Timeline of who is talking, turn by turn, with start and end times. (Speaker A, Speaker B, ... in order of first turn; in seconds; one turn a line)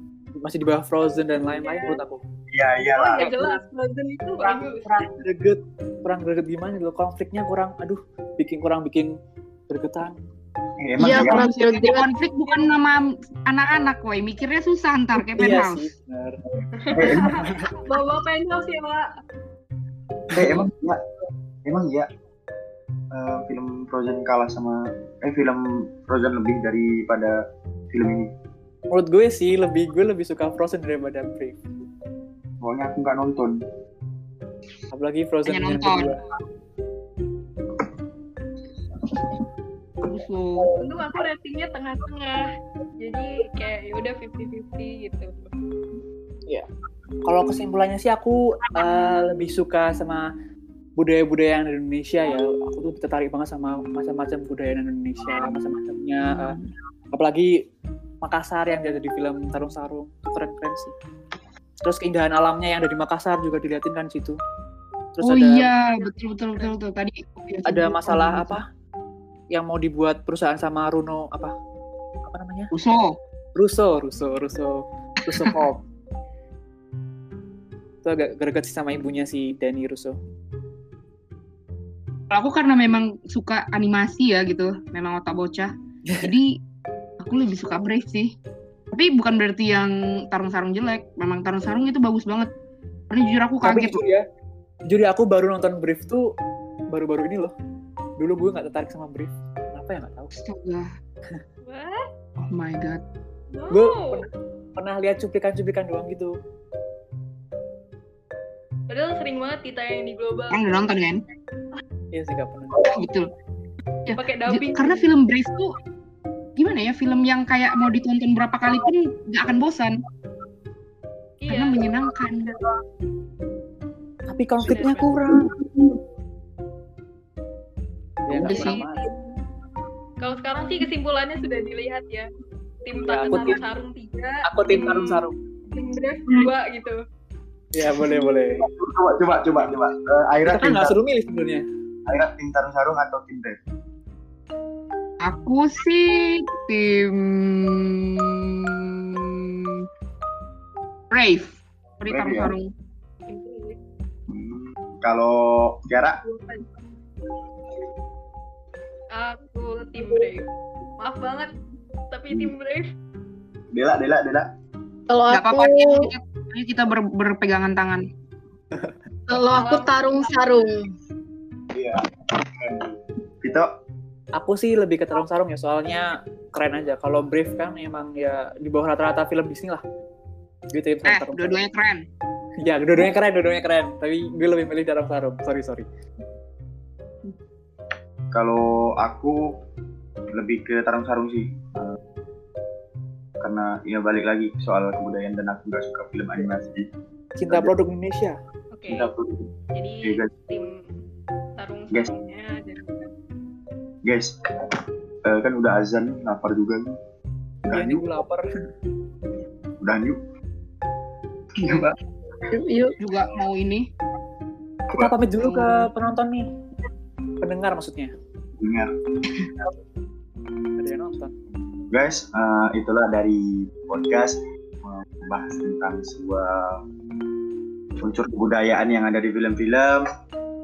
Speaker A: 0.4-2.2
Speaker B: 1.5-2.0
Speaker C: 2.5-3.3
Speaker B: 2.8-5.1
Speaker A: 3.2-3.6
Speaker A: 4.4-9.1
Speaker A: 9.7-10.1
Speaker C: 10.8-11.4
Speaker D: 11.0-15.9
Speaker E: 11.0-12.1
Speaker A: 15.2-16.4
Speaker B: 16.8-19.1
Speaker C: 16.9-17.6
Speaker A: 17.3-17.7
Speaker A: 20.3-20.6
Speaker C: 20.3-21.0
Speaker C: 21.6-22.1
Speaker C: 23.1-27.4
Speaker C: 27.9-28.3
Speaker A: 28.9-31.6
Speaker C: 32.6-33.6
Speaker A: 34.9-36.2
Speaker D: 35.5-36.1
Speaker C: 39.1-39.4
Speaker D: 40.0-40.7
Speaker B: 40.8-42.4
Speaker B: 43.0-45.4
Speaker A: 47.2-50.2
Speaker A: 51.0-56.5
Speaker D: 56.2-56.7
Speaker A: 57.1-57.5
Speaker A: 58.2-60.9
Speaker A: 61.8-64.4
Speaker A: 65.1-65.7
Speaker D: 65.2-68.6
Speaker B: 65.9-66.7
Speaker A: 67.7-68.6
Speaker A: 69.5-71.5
Speaker A: 72.2-72.7
Speaker D: 72.7-73.2
Speaker A: 73.5-75.8
Speaker A: 78.0-80.2
Speaker D: 82.3-85.7
Speaker A: 86.0-86.3
Speaker D: 86.2-86.5
Speaker D: 87.2-88.3
Speaker D: 88.9-92.5
Speaker D: 93.1-94.0
Speaker A: 93.6-94.2
Speaker A: 94.9-96.2
Speaker A: 96.9-97.5
Speaker A: 98.2-100.3
Speaker D: 100.3-100.9
Speaker B: 101.7-102.0
Speaker D: 102.4-103.0
Speaker B: 103.5-104.2
Speaker A: 103.7-106.3
Speaker B: 108.9-110.8
Speaker D: 110.5-111.2
Speaker A: 112.1-112.8
Speaker D: 112.8-113.3
Speaker D: 114.0-115.7
Speaker B: 114.2-115.1
Speaker D: 116.6-120.0
Speaker B: 121.4-122.6
Speaker D: 121.5-122.5
Speaker A: 124.3-125.5
Speaker B: 124.6-125.1
Speaker A: 128.2-129.1
Speaker D: 128.3-128.8
Speaker B: 128.4-129.3
Speaker B: 130.2-132.3
Speaker B: 132.8-137.0
Speaker A: 133.0-133.6
Speaker A: 134.4-135.3
Speaker A: 137.7-138.7
Speaker C: 138.6-140.9
Speaker A: 140.4-141.6
Speaker C: 142.1-143.6
Speaker D: 145.2-149.4
Speaker D: 151.1-152.7
Speaker C: 152.1-152.5
Speaker B: 153.3-153.8
Speaker C: 154.3-156.2
Speaker B: 156.2-156.8
Speaker B: 159.1-160.5
Speaker B: 161.0-161.5
Speaker B: 162.1-162.9
Speaker C: 163.7-164.5
Speaker E: 165.1-166.1
Speaker D: 165.3-168.0
Speaker E: 169.3-170.9
Speaker B: 169.5-170.2
Speaker C: 171.7-173.7
Speaker A: 174.3-179.8
Speaker A: 180.7-181.6
Speaker D: 181.0-182.0
Speaker A: 182.6-185.8
Speaker C: 188.3-189.4
Speaker C: 190.3-192.0
Speaker C: 193.4-196.9
Speaker A: 197.3-198.3
Speaker B: 198.7-199.1
Speaker C: 198.9-199.5
Speaker B: 199.7-200.9
Speaker C: 200.0-200.3
Speaker B: 201.6-203.1
Speaker C: 204.0-204.7
Speaker C: 205.2-207.0
Speaker C: 207.7-208.1
Speaker A: 207.7-208.4
Speaker C: 209.8-210.2
Speaker C: 211.6-212.0
Speaker E: 212.6-212.9
Speaker D: 213.0-213.9
Speaker A: 214.9-216.5
Speaker D: 215.4-215.9
Speaker A: 217.4-218.1
Speaker C: 218.6-218.9
Speaker A: 220.8-221.3
Speaker C: 221.9-226.8
Speaker C: 228.0-230.0